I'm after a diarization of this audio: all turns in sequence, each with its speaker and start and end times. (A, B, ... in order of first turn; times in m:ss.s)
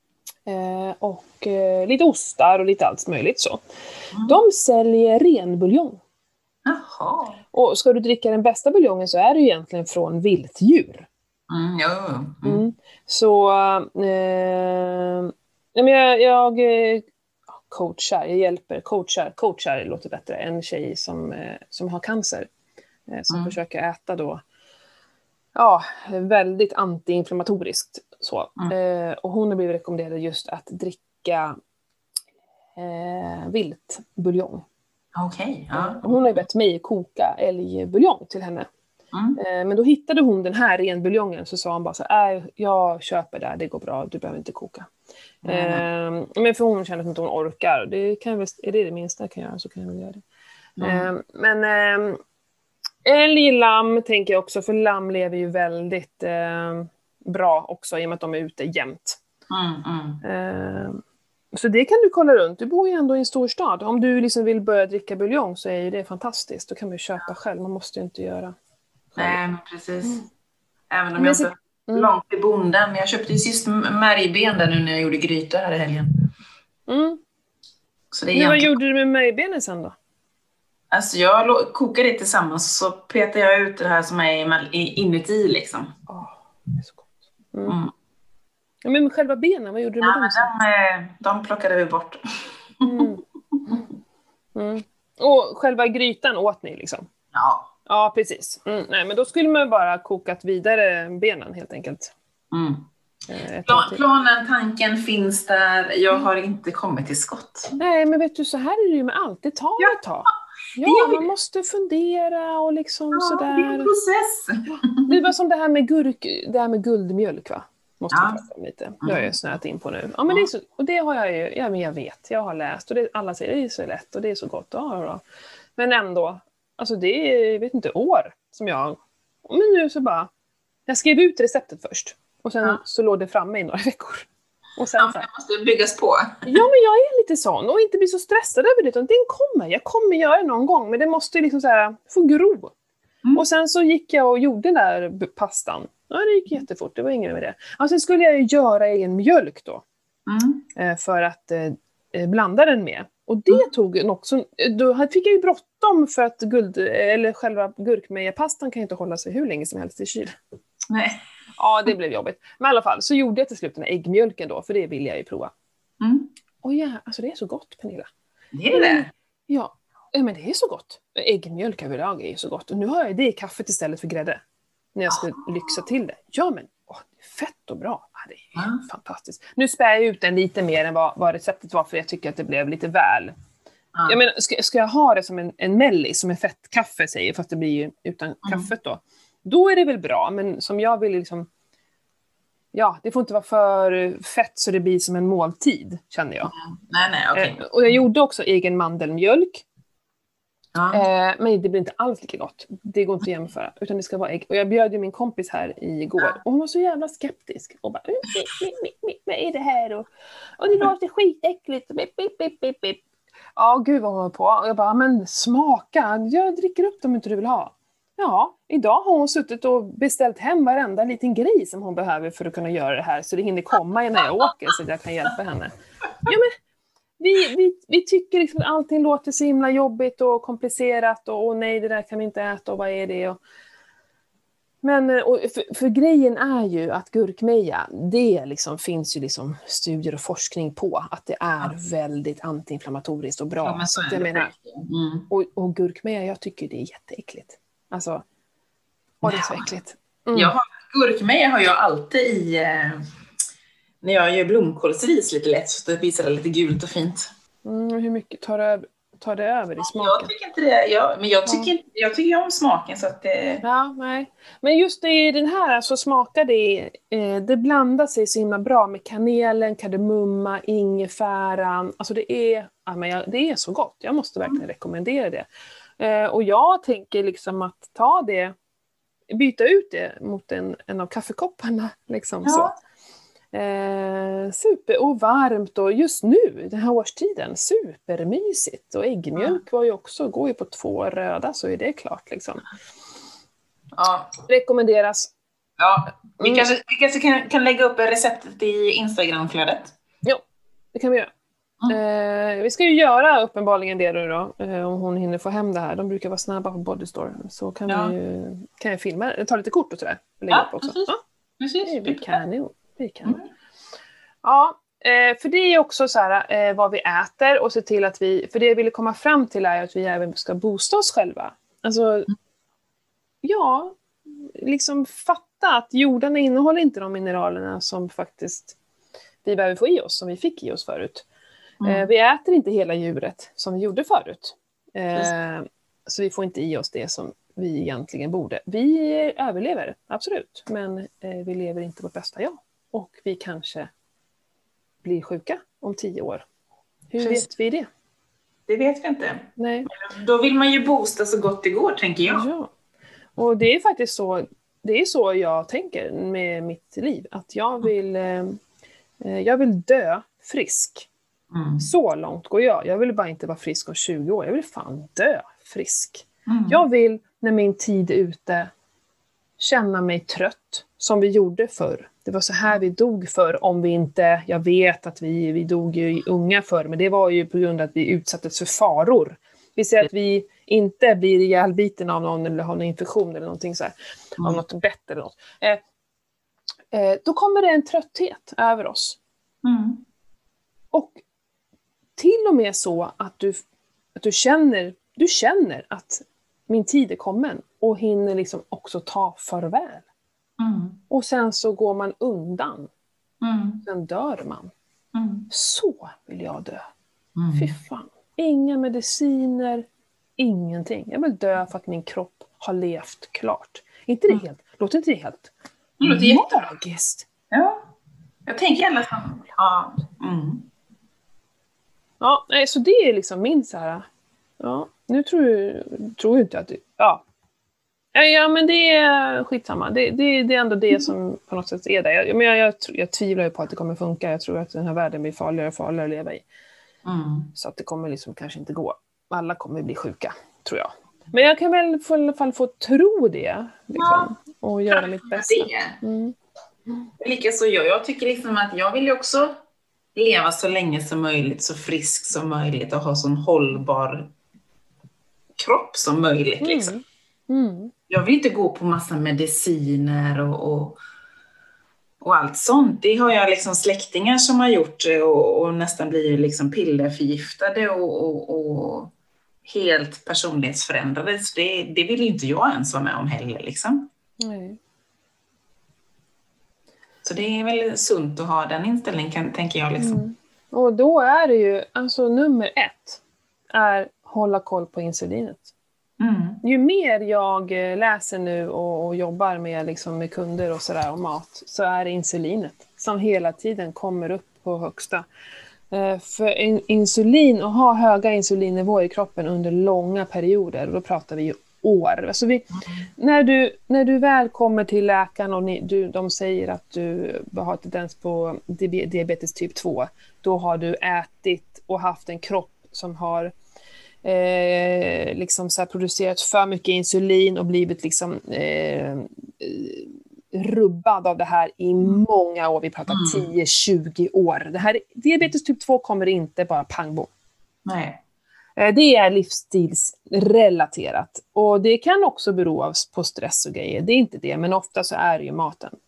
0:00.5-0:03.6 A
0:04.1-0:04.4 B
0:04.2-0:06.0 A
0:06.7-0:07.4 B
0:07.5-0:11.1 A
0:11.5-0:12.6 B
0:12.4-0:22.5 A
0:23.1-0:24.4 A
0:23.3-0:23.6 B
0:25.6-0:31.6 A
0:32.8-0:34.6 A
0:35.2-0:36.4 B
0:35.7-0:38.7 A
0:39.1-0:39.4 B
0:39.4-0:44.9 A
0:45.4-0:45.9 B
0:45.4-0:50.2 A
0:50.8-0:51.1 B
0:50.8-0:52.2 A
0:53.0-0:59.2 A
0:59.5-1:00.2 B
1:00.2-1:01.0 A
1:01.5-1:08.6 A
1:09.2-1:10.2 B
1:10.9-1:16.3 B
1:11.2-1:12.1 A
1:16.9-1:17.2 A
1:18.1-1:18.8 B
1:18.3-1:20.0 A
1:20.9-1:25.9 B
1:26.1-1:27.8 A
1:27.7-1:27.9 B
1:28.8-1:30.5 A
1:30.0-1:33.0 B
1:32.8-1:33.2 A
1:34.6-1:37.1 A
1:37.3-1:37.7 B
1:37.9-1:42.1 A
1:42.5-1:42.9 B
1:43.3-1:44.0 A
1:43.7-1:47.8 B
1:47.8-1:53.9 A
1:50.8-1:51.3 B
1:53.1-1:55.2 B
1:54.7-2:05.2 A
1:58.1-1:58.4 B
1:59.0-1:59.3 B
2:05.8-2:10.3 A
2:10.9-2:15.3 A
2:15.0-2:16.6 B
2:16.5-2:22.7 A
2:23.4-2:29.8 A
2:30.3-2:30.7 B
2:30.8-2:40.4 A
2:40.9-2:41.2 B
2:41.6-2:45.5 A
2:46.0-2:46.3 B
2:46.6-2:48.1 A
2:48.5-2:49.1 B
2:48.7-2:54.4 A
2:55.0-3:03.3 A
2:55.1-2:55.7 B
2:58.6-2:58.8 B
3:04.1-3:11.5 A
3:08.4-3:08.7 B
3:12.7-3:16.5 A
3:16.5-3:18.0 B
3:17.3-3:19.6 A
3:20.7-3:21.0 B
3:20.9-3:33.0 A
3:33.6-3:45.7 A
3:46.2-3:46.6 A
3:47.2-3:53.4 A
3:54.8-4:04.5 A
4:03.6-4:05.3 B
4:05.3-4:08.2 A
4:09.2-4:09.8 B
4:09.2-4:10.6 A
4:10.3-4:13.0 B
4:14.0-4:17.3 B
4:17.6-4:20.3 A
4:19.8-4:23.6 B
4:21.5-4:21.7 A
4:23.6-4:35.5 A
4:36.0-4:38.5 A
4:39.3-4:42.7 A
4:42.4-4:42.8 B
4:43.5-4:52.6 A
4:49.4-4:49.6 B
4:53.9-4:54.3 B
4:54.5-4:55.3 A
4:55.8-4:59.9 B
4:56.4-4:56.7 A
5:00.9-5:01.3 A
5:01.9-5:11.2 A
5:07.9-5:08.1 B
5:10.5-5:12.4 B
5:11.9-5:13.4 A
5:14.4-5:22.3 A
5:23.4-5:28.8 A
5:29.4-5:31.2 A
5:31.8-5:32.1 B
5:31.8-5:43.9 A
5:45.0-5:46.5 A
5:47.1-5:47.9 A
5:47.2-5:47.5 B
5:48.7-5:52.5 B
5:49.6-5:49.9 A
5:52.3-5:52.7 A
5:53.4-5:58.6 A
5:59.2-6:01.1 A
6:01.5-6:01.8 B
6:01.8-6:08.7 A
6:06.5-6:06.8 B
6:09.6-6:25.8 A
6:26.9-6:29.2 A
6:29.6-6:30.0 B
6:30.9-6:31.2 A
6:32.2-6:33.6 A
6:34.2-6:40.0 A
6:40.6-6:41.0 B
6:41.1-6:42.9 A
6:43.4-6:43.8 B
6:43.8-6:44.7 A
6:45.1-6:45.5 B
6:45.5-6:46.8 A
6:47.4-6:47.7 B
6:47.6-6:49.9 A
6:50.4-6:57.3 A
6:56.0-6:56.4 B
6:57.5-6:57.9 B
6:58.5-7:00.7 B
7:02.2-7:04.1 A
7:04.6-7:07.2 A
7:08.1-7:16.4 A
7:17.0-7:17.5 B
7:17.6-7:26.4 A
7:24.0-7:24.3 B
7:24.9-7:26.0 B
7:27.2-7:29.6 B
7:30.2-7:34.3 B
7:35.6-7:36.9 B
7:36.6-7:37.9 A
7:38.1-7:41.0 B
7:42.2-7:49.1 B
7:49.6-7:54.1 B
7:54.4-7:54.8 A
7:57.2-8:00.2 B
8:00.0-8:05.7 A
8:06.2-8:06.6 B
8:06.6-8:15.3 A
8:15.9-8:33.5 A
8:34.2-8:47.3 A
8:43.1-8:43.5 B
8:47.9-8:48.2 B
8:48.8-8:56.0 A